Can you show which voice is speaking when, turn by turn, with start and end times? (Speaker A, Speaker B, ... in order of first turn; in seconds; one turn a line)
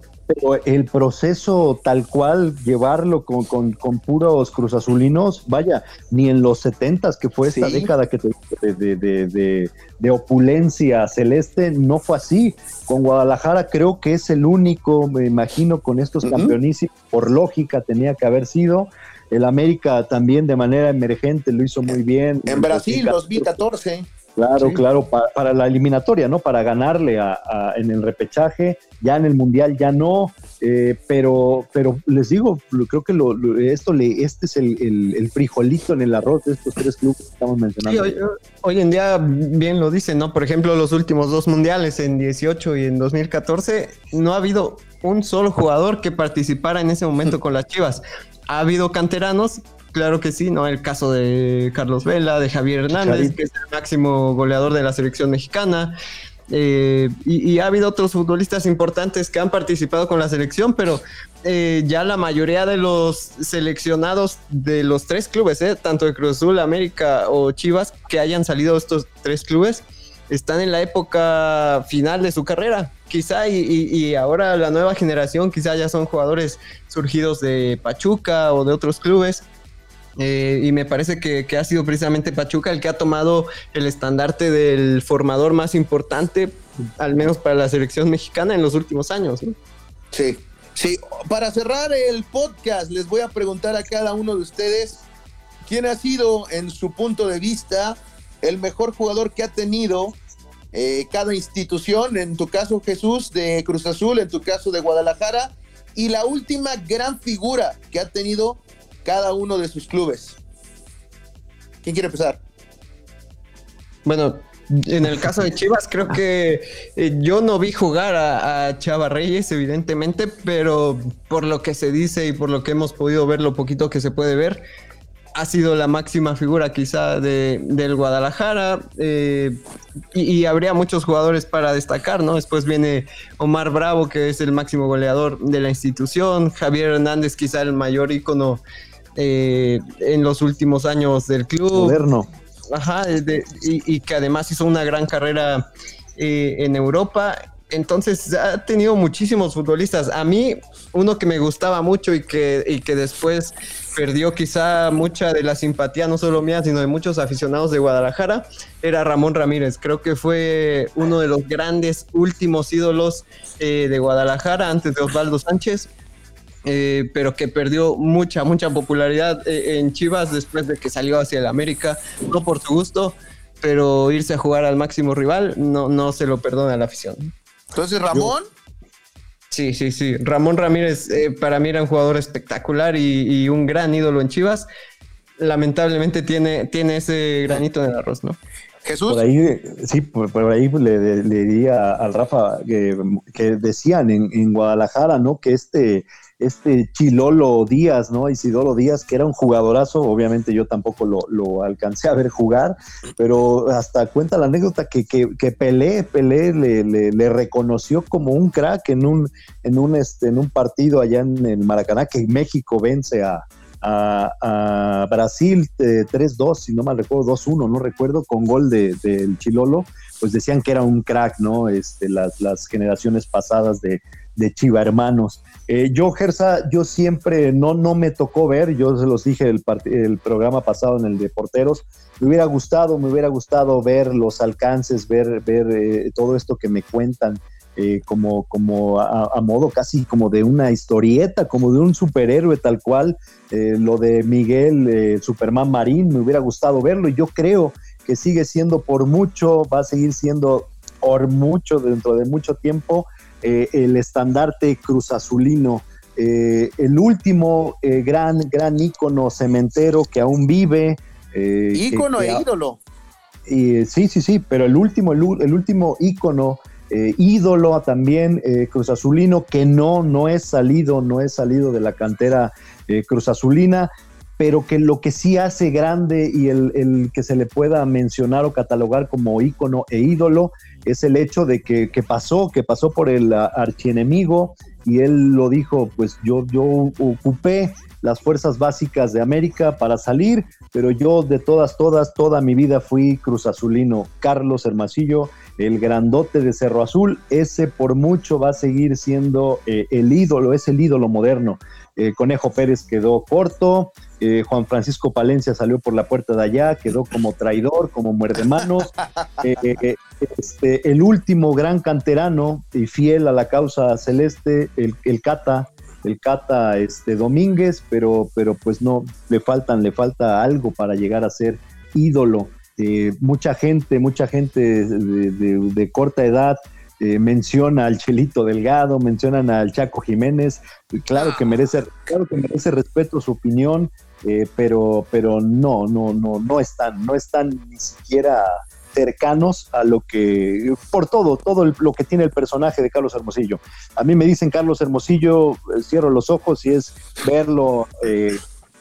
Speaker A: 0.3-23.6
Speaker B: 7.5-7.9
Speaker B: 16.2-16.6
Speaker B: 22.5-24.1
Speaker A: 24.4-38.1
Speaker C: 37.8-56.0
Speaker A: 53.0-53.4
Speaker C: 56.5-79.5
Speaker C: 80.2-89.5
Speaker B: 90.1-95.0
Speaker B: 95.7-100.2
Speaker B: 100.7-110.4
Speaker B: 111.8-112.4
Speaker C: 114.0-124.6
Speaker C: 125.3-129.6
Speaker C: 130.1-138.6
Speaker C: 139.2-142.0
Speaker A: 141.7-142.3
Speaker C: 142.7-145.7
Speaker C: 146.2-165.9
Speaker C: 166.7-177.3
Speaker B: 177.7-178.5
Speaker C: 179.5-184.7
Speaker C: 185.4-188.4
Speaker B: 188.8-189.2
Speaker A: 189.1-262.4
Speaker B: 261.7-262.8
Speaker A: 263.5-308.9
Speaker A: 309.4-348.4
Speaker B: 331.2-331.6